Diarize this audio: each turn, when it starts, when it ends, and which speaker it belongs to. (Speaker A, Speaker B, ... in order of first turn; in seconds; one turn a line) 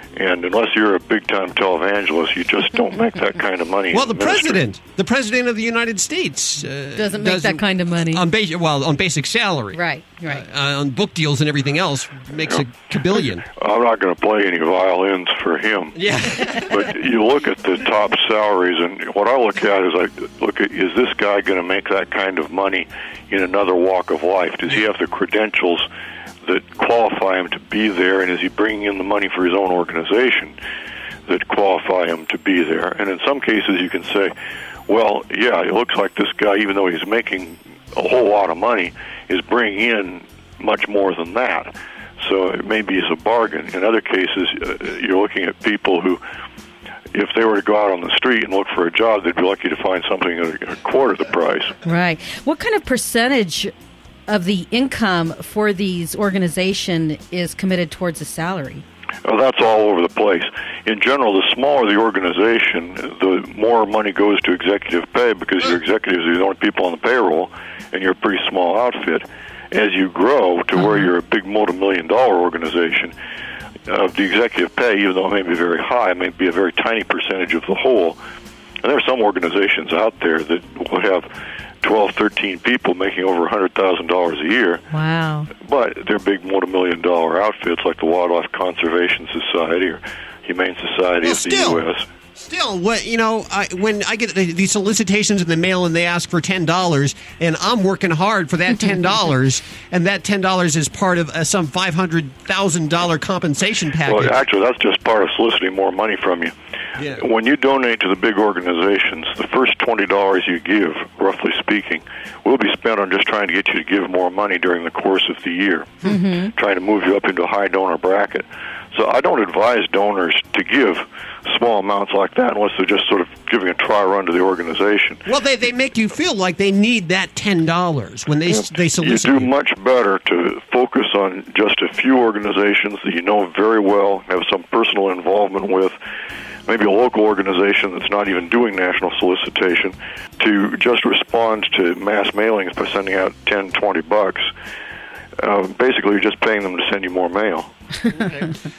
Speaker A: 0.1-4.7
Speaker B: 3.9-13.4
Speaker C: 7.0-8.2
Speaker C: 9.7-10.4
Speaker A: 13.6-25.9
Speaker B: 15.9-16.9
Speaker A: 26.4-30.6
Speaker A: 31.3-34.3
Speaker A: 34.9-46.2
Speaker A: 47.1-51.8
Speaker C: 51.8-53.7
Speaker C: 54.3-58.8
Speaker A: 59.2-73.1
Speaker A: 73.9-78.2
Speaker A: 78.8-81.3
Speaker A: 81.8-84.8
Speaker C: 84.9-85.5
Speaker A: 85.6-92.1
Speaker B: 91.2-91.8
Speaker B: 92.3-104.4
Speaker A: 104.0-106.5
Speaker B: 107.0-107.2
Speaker A: 107.2-125.2
Speaker C: 116.0-116.5
Speaker B: 125.3-129.5
Speaker A: 128.5-135.9
Speaker A: 136.7-144.5
Speaker A: 145.4-147.7
Speaker B: 148.1-148.6